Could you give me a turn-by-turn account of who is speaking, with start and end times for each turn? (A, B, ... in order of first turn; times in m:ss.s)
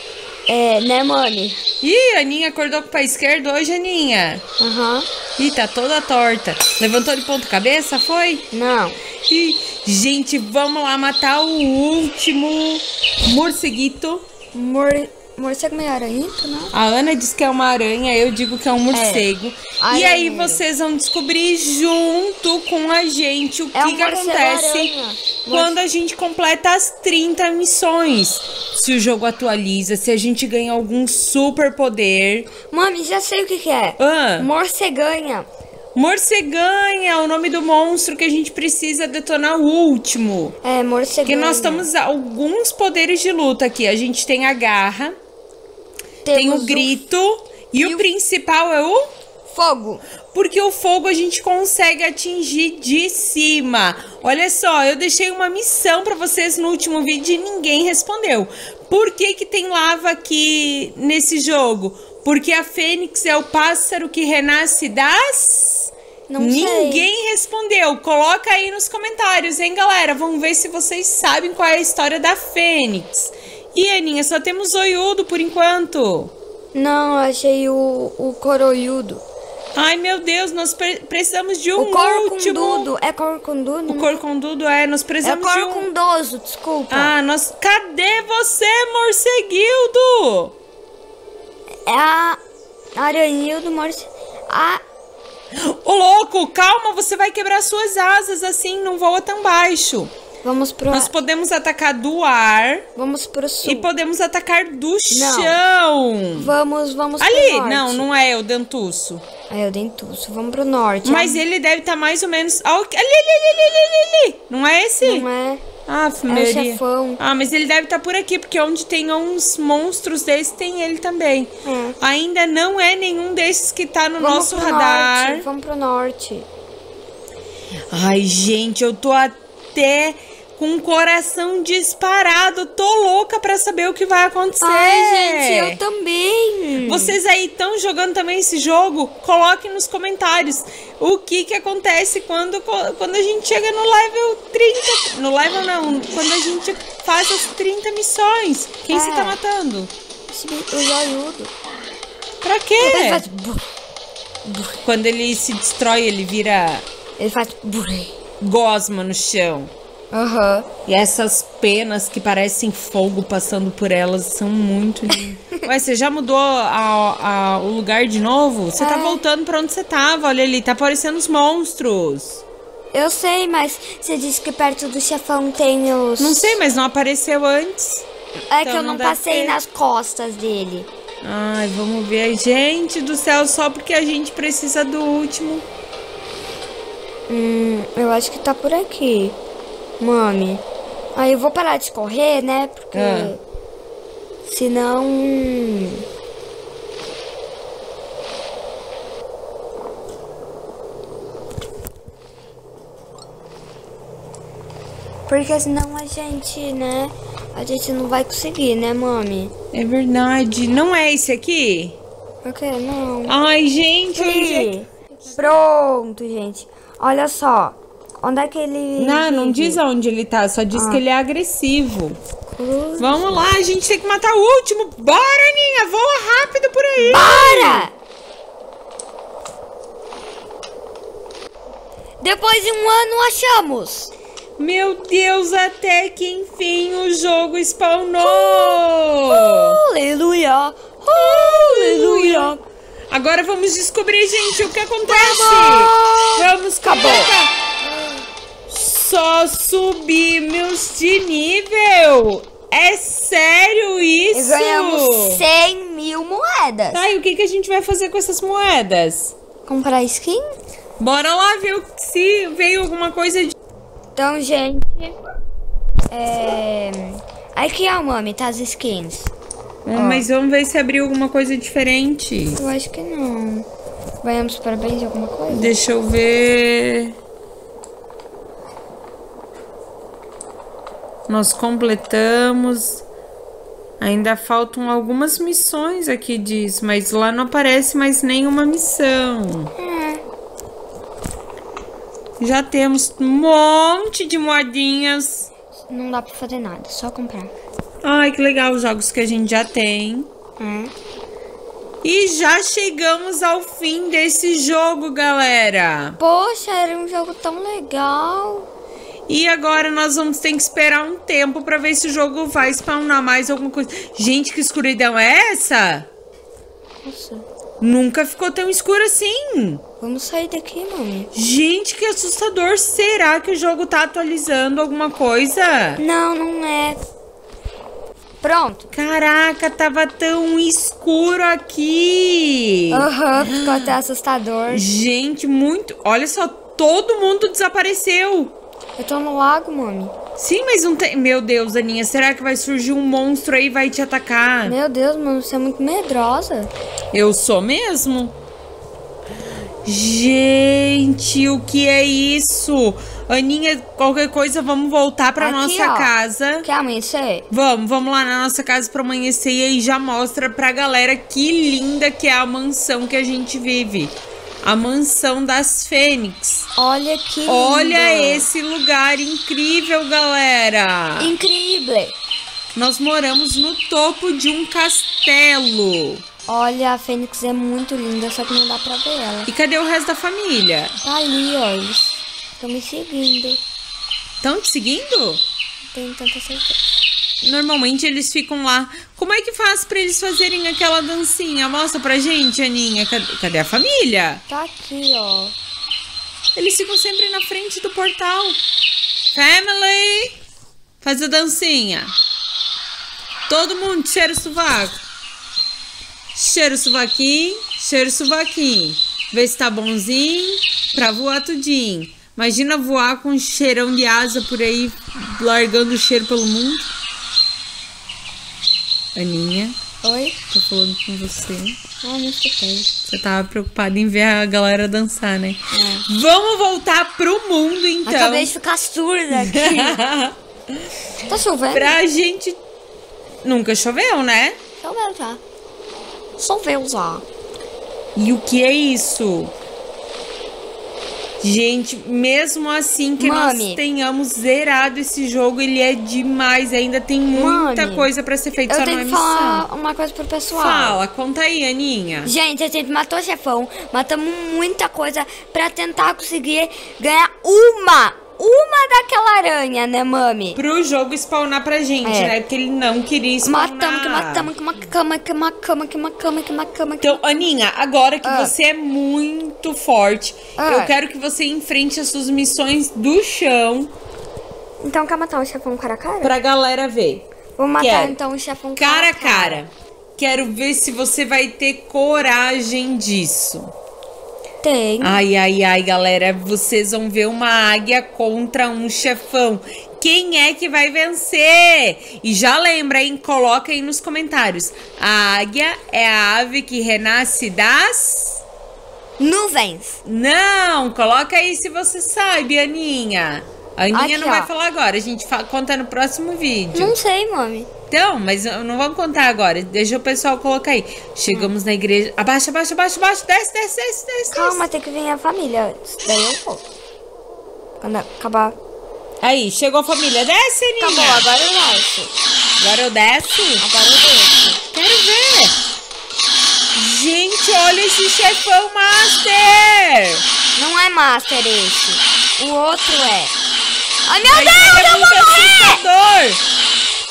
0:00.5-0:01.6 A
0:01.8-0:04.4 B
0:04.6-0:05.0 A
0:05.4-0:08.4 B
0:08.5-0:09.0 A
0:09.3-0:14.2 B
0:14.5-0:16.7 A
0:16.7-0:24.9 B
0:18.9-0:19.2 A
0:19.8-0:20.6 A
0:23.7-0:25.8 A
0:25.5-0:32.5 B
0:32.6-0:35.5 A
0:34.0-0:34.5 B
0:35.9-0:40.6 B
0:40.6-0:41.9 A
0:41.2-0:45.1 B
0:46.2-0:47.0 A
0:46.3-0:49.0 B
0:47.8-0:48.0 A
0:49.5-0:50.0 A
0:50.3-1:16.3 B
1:06.3-1:07.1 A
1:16.7-1:19.2 A
1:19.7-1:22.9 B
1:21.8-1:24.2 A
1:23.9-1:25.9 B
1:25.2-1:27.1 A
1:26.9-1:30.5 B
1:31.8-1:32.4 A
1:33.0-1:34.8 A
1:35.5-1:40.1 B
1:40.4-1:41.1 A
1:40.9-1:42.8 B
1:43.0-1:43.9 A
1:43.6-1:46.5 B
1:45.1-1:45.6 A
1:46.4-1:48.1 A
1:47.2-1:49.2 B
1:49.5-1:51.4 A
1:51.0-1:55.2 B
1:55.0-1:55.6 A
1:55.9-2:05.4 B
1:56.3-1:57.2 A
2:01.6-2:02.0 A
2:04.2-2:06.5 A
2:07.9-2:15.8 B
2:14.6-2:17.2 A
2:16.8-2:29.9 B
2:28.9-2:29.4 A
2:30.3-2:31.5 A
2:32.4-2:33.2 B
2:32.8-2:33.6 A
2:34.4-2:34.8 A
2:34.8-2:36.8 B
2:37.2-2:38.1 A
2:38.4-2:39.7 B
2:40.1-2:40.7 A
2:40.8-2:52.4 B
2:48.8-2:49.2 A
2:52.9-2:56.6 A
2:56.2-2:58.0 B
2:58.5-3:00.9 A
2:58.6-2:59.6 B
3:01.2-3:05.6 B
3:07.3-3:09.4 A
3:10.0-3:10.6 A
3:11.1-3:13.4 A
3:12.9-3:13.3 B
3:14.4-3:16.0 A
3:25.3-3:29.5 A
3:29.7-3:32.0 B
3:32.4-3:33.4 A
3:33.2-3:35.5 B
3:34.1-3:39.8 A
3:39.0-3:42.2 B
3:40.7-3:41.0 A
3:42.5-3:43.4 A
3:43.0-3:47.9 B
3:47.0-3:47.9 A
3:52.2-3:54.1 A
3:54.6-3:59.8 B
3:58.2-4:02.6 A
4:01.1-4:02.6 B
4:03.1-4:07.5 B
4:05.0-4:07.3 A
4:08.7-4:15.4 B
4:14.3-4:17.0 A
4:16.9-4:19.3 B
4:19.7-4:20.4 A
4:21.0-4:23.5 B
4:24.1-4:25.2 A
4:26.1-4:29.3 A
4:29.8-4:32.6 B
4:29.9-4:30.3 A
4:32.6-4:33.6 A
4:34.2-4:35.7 A
4:35.5-4:37.1 B
4:41.3-4:43.0 B
4:44.0-4:49.7 B
4:49.8-4:50.2 A
4:52.4-4:55.5 B
4:55.9-4:57.5 A
4:58.0-5:00.3 B
5:00.6-5:00.9 A
5:02.0-5:06.2 B
5:06.2-5:08.7 A
5:09.3-5:16.1 B
5:17.0-5:17.4 A
5:17.8-5:19.8 B
5:20.0-5:21.3 A
5:21.3-5:26.0 B
5:26.0-5:27.0 A
5:28.4-5:28.9 A
5:28.9-5:33.9 B
5:32.9-5:34.8 A
5:34.7-5:38.5 B
5:39.0-5:40.1 A
5:40.4-5:44.8 B
5:44.6-5:46.7 A
5:47.1-5:48.3 B
5:49.8-5:56.7 B
5:55.4-5:57.4 A
5:57.5-6:06.7 B
6:06.8-6:08.5 A
6:07.4-6:11.4 B
6:11.2-6:12.1 A
6:12.7-6:16.2 B
6:16.5-6:19.5 A
6:19.5-6:21.0 B
6:21.0-6:23.6 A
6:24.4-6:25.4 B
6:25.9-6:26.8 A
6:27.4-6:34.4 B
6:34.5-6:35.5 A
6:36.5-6:38.6 B
6:39.3-6:40.4 B
6:41.0-6:42.1 B
6:43.5-6:45.0 B
6:46.3-6:56.9 B
6:59.1-6:59.7 B
7:00.0-7:00.4 A
7:00.5-7:01.8 B
7:02.0-7:02.9 A
7:03.1-7:08.5 B
7:05.7-7:06.0 A
7:08.0-7:10.0 A
7:09.3-7:10.4 B
7:11.2-7:12.0 A
7:11.7-7:12.6 B
7:13.4-7:14.6 B
7:14.8-7:15.4 A
7:16.4-7:17.2 A
7:18.2-7:19.5 B
7:21.4-7:29.6 B
7:23.2-7:23.8 A
7:27.3-7:28.1 A
7:28.7-7:31.0 A
7:30.5-7:32.3 B
7:32.2-7:40.6 A
7:40.5-7:44.5 B
7:42.0-7:42.3 A
7:43.4-7:47.2 A
7:47.0-7:53.9 B
7:48.2-7:48.5 A
7:50.6-7:50.9 A
7:54.8-7:56.3 A
7:56.2-7:57.2 B
7:57.6-7:59.6 A
7:57.8-7:58.2 B
7:58.8-8:03.7 B
8:04.6-8:05.2 A
8:05.0-8:18.4 B
8:19.2-8:20.0 A
8:20.0-8:27.0 B
8:23.9-8:24.5 A
8:26.7-8:27.7 A
8:27.9-8:34.6 B
8:34.3-8:36.6 A
8:37.8-8:38.6 A
8:39.2-8:41.2 B
8:40.8-8:42.1 A
8:42.6-8:43.6 B
8:43.6-8:44.6 A
8:44.7-8:45.6 B
8:46.7-8:50.2 B
8:50.5-8:53.3 A
8:54.0-8:55.8 A
8:54.3-8:56.4 B